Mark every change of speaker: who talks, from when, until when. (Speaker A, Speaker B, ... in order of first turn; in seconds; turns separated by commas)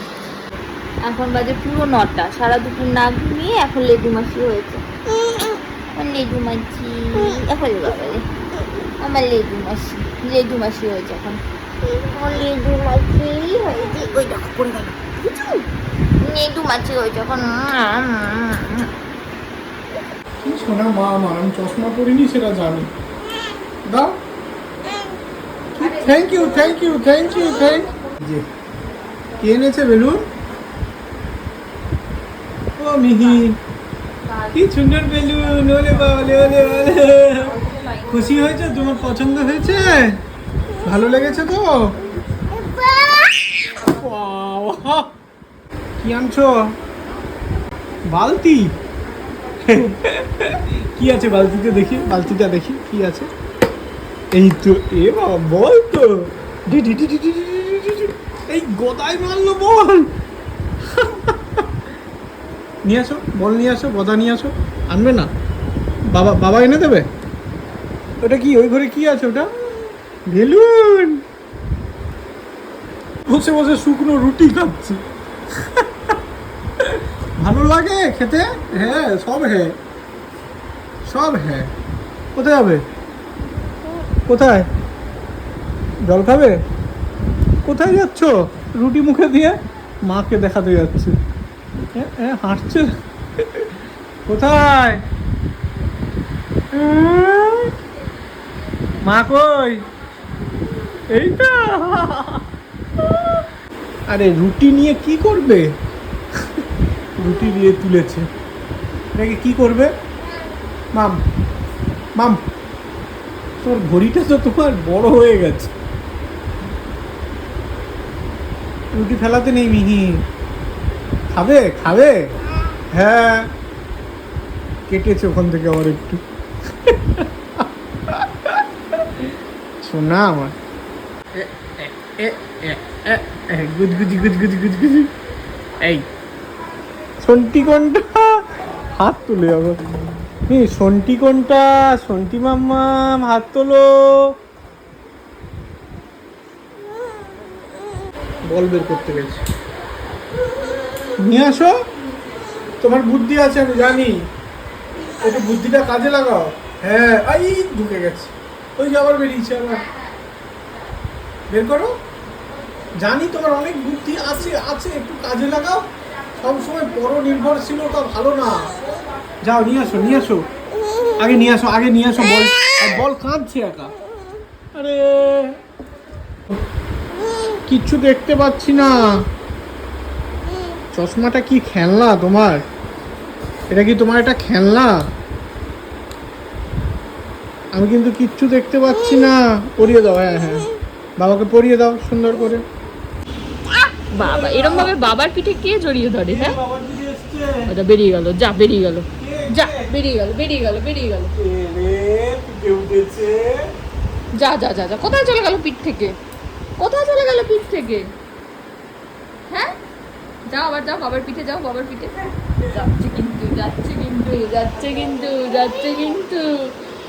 Speaker A: 1.1-4.8, Speaker A: 5.9-8.2, Speaker A: 9.0-11.4, Speaker A: 12.1-14.9, Speaker A: 16.2-18.9, Speaker B: 20.4-22.9, Speaker B: 23.9-24.2, Speaker B: 25.8-28.5, Speaker C: 25.8-26.8, Speaker B: 29.4-30.3, Speaker B: 32.8-33.6, Speaker B: 34.5-40.2, Speaker B: 40.8-42.0, Speaker B: 43.8-45.1, Speaker B: 46.0-46.7, Speaker B: 48.1-48.8, Speaker B: 49.6-53.3, Speaker B: 54.3-60.1, Speaker B: 60.8-61.6, Speaker B: 62.8-65.3, Speaker B: 66.1-67.1, Speaker B: 68.2-69.5, Speaker B: 70.3-71.2, Speaker B: 73.3-75.0, Speaker B: 75.7-76.1, Speaker B: 77.4-79.7, Speaker B: 81.1-81.7, Speaker B: 82.3-82.8, Speaker B: 84.3-84.7, Speaker B: 86.0-86.5, Speaker B: 87.7-89.5, Speaker B: 90.0-91.1, Speaker B: 91.9-93.7, Speaker B: 94.2-95.0, Speaker B: 96.7-97.7, Speaker B: 99.0-99.9, Speaker B: 101.1-102.5, Speaker B: 103.0-103.4, Speaker B: 104.1-105.7, Speaker B: 107.2-108.3, Speaker B: 109.2-109.9, Speaker B: 113.6-115.7, Speaker B: 118.9-120.2, Speaker B: 121.3-122.1, Speaker B: 122.9-123.5, Speaker B: 124.9-126.2, Speaker B: 126.8-129.3, Speaker B: 129.8-130.5, Speaker B: 131.3-135.1, Speaker B: 137.2-138.4, Speaker B: 138.9-139.8, Speaker B: 140.5-144.3, Speaker B: 148.5-149.4, Speaker B: 151.2-151.8, Speaker B: 152.8-154.2, Speaker B: 155.2-159.9, Speaker B: 161.5-161.9, Speaker B: 163.0-165.8, Speaker B: 166.4-168.7, Speaker B: 169.4-170.5, Speaker B: 171.2-173.9, Speaker B: 174.7-175.6, Speaker B: 177.7-179.3, Speaker B: 180.9-182.6, Speaker B: 183.7-185.0, Speaker B: 187.7-190.7, Speaker B: 191.2-192.6, Speaker C: 194.1-196.6, Speaker B: 194.1-194.9, Speaker B: 196.2-197.6, Speaker C: 197.7-201.3, Speaker B: 199.2-199.9, Speaker B: 201.3-203.6, Speaker C: 204.3-206.2, Speaker C: 206.8-208.1, Speaker C: 209.5-209.7, Speaker C: 210.5-216.8